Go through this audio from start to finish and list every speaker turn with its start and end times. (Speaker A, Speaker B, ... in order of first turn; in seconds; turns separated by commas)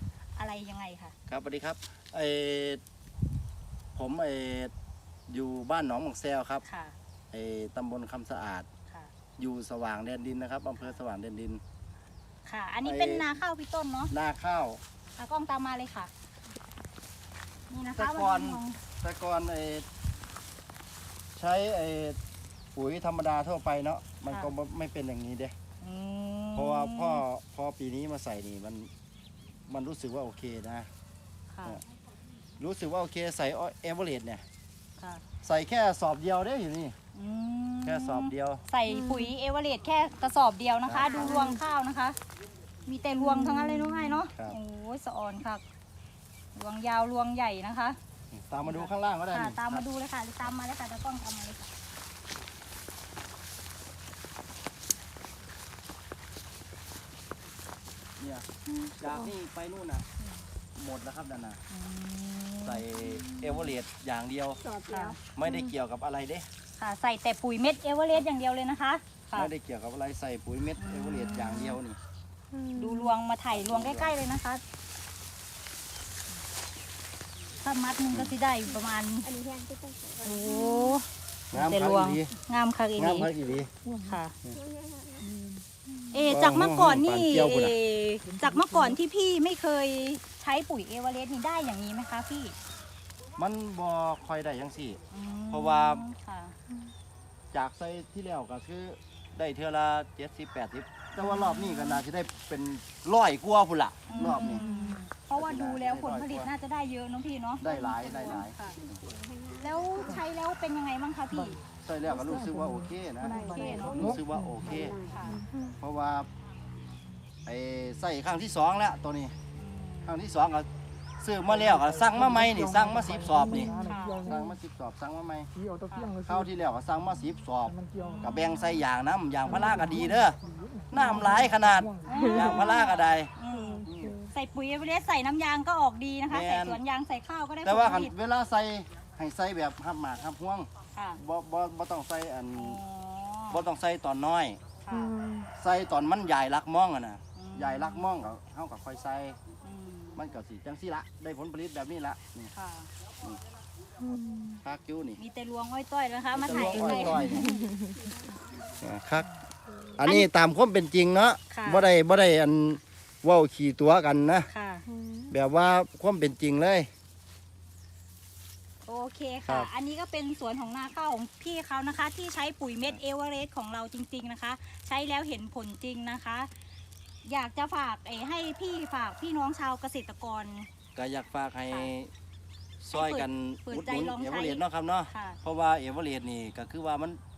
Speaker A: 0.3-1.1, Speaker B: 1.3-2.8, Speaker B: 3.9-4.7, Speaker B: 5.3-6.6, Speaker A: 6.7-6.9, Speaker B: 7.3-8.7, Speaker B: 9.4-11.6, Speaker A: 12.4-14.1, Speaker B: 12.8-13.2, Speaker B: 14.1-14.8, Speaker A: 15.1-16.1, Speaker A: 17.7-18.8, Speaker B: 17.9-19.9, Speaker B: 21.3-22.2, Speaker B: 22.7-25.5, Speaker A: 25.8-27.2, Speaker B: 26.5-28.9, Speaker B: 29.7-30.9, Speaker A: 31.5-31.8, Speaker B: 32.6-34.4, Speaker A: 35.0-35.2, Speaker B: 35.4-37.0, Speaker A: 37.1-42.2, Speaker B: 37.8-38.6, Speaker C: 38.9-39.3, Speaker B: 40.8-41.5, Speaker C: 41.2-41.6, Speaker A: 42.9-45.6, Speaker C: 43.1-44.2, Speaker B: 44.3-44.6, Speaker A: 46.5-48.0, Speaker B: 48.3-49.8, Speaker A: 48.6-51.7, Speaker B: 58.2-58.5, Speaker C: 58.7-59.3, Speaker B: 59.0-60.0, Speaker B: 60.7-61.6, Speaker A: 61.7-62.8, Speaker B: 62.6-64.6, Speaker C: 63.0-63.7, Speaker D: 64.6-65.2, Speaker A: 64.9-65.2, Speaker B: 65.3-66.5, Speaker C: 65.4-65.7, Speaker A: 66.8-69.5, Speaker B: 69.3-72.0, Speaker A: 70.8-71.8, Speaker C: 72.5-73.1, Speaker A: 72.7-74.6, Speaker B: 73.5-74.2, Speaker A: 77.6-79.3, Speaker D: 79.2-81.0, Speaker A: 80.2-81.0, Speaker B: 81.5-82.3, Speaker A: 81.5-83.3, Speaker B: 83.0-83.7, Speaker C: 83.8-84.2, Speaker A: 84.0-84.3, Speaker D: 84.5-85.3, Speaker C: 85.2-86.1, Speaker A: 86.1-92.5, Speaker B: 86.3-87.8, Speaker C: 88.2-89.0, Speaker B: 93.4-95.0, Speaker A: 95.1-96.5, Speaker B: 95.5-96.0, Speaker B: 97.5-104.6, Speaker A: 104.1-108.8, Speaker C: 104.2-105.0, Speaker B: 105.3-106.5, Speaker B: 107.6-109.0, Speaker D: 107.7-110.2, Speaker A: 109.6-111.6, Speaker C: 111.3-115.7, Speaker B: 111.8-114.9, Speaker D: 113.2-115.2, Speaker A: 113.3-114.1, Speaker A: 115.0-115.4, Speaker B: 115.8-116.3, Speaker B: 117.5-119.3, Speaker A: 119.5-120.2, Speaker B: 120.0-120.7, Speaker B: 121.2-123.7, Speaker C: 121.6-124.5, Speaker A: 123.7-124.3, Speaker B: 124.2-125.5, Speaker C: 125.5-126.5, Speaker B: 126.2-130.4, Speaker C: 127.7-128.4, Speaker A: 128.0-128.8, Speaker C: 129.4-132.7, Speaker B: 130.9-133.3, Speaker A: 132.0-138.1, Speaker C: 133.5-134.3, Speaker B: 133.8-134.2, Speaker B: 136.3-136.8, Speaker B: 137.6-142.8, Speaker A: 140.9-141.2, Speaker A: 142.5-143.7, Speaker B: 143.5-144.6, Speaker A: 144.8-145.1, Speaker C: 144.9-145.5, Speaker B: 145.6-149.4, Speaker A: 147.3-148.1, Speaker A: 149.6-150.2, Speaker B: 150.2-152.5, Speaker A: 152.5-152.9, Speaker C: 154.0-154.6, Speaker B: 154.6-155.2, Speaker A: 155.2-157.6, Speaker B: 156.3-157.5, Speaker C: 156.8-157.9, Speaker D: 157.2-158.7, Speaker B: 158.8-159.3, Speaker B: 160.0-164.5, Speaker A: 160.0-160.3, Speaker A: 161.5-161.9, Speaker A: 164.5-164.8, Speaker C: 164.9-165.3, Speaker B: 165.3-166.9, Speaker A: 168.8-176.5, Speaker A: 177.2-180.7, Speaker B: 180.9-182.1, Speaker B: 182.8-187.2, Speaker A: 182.9-185.4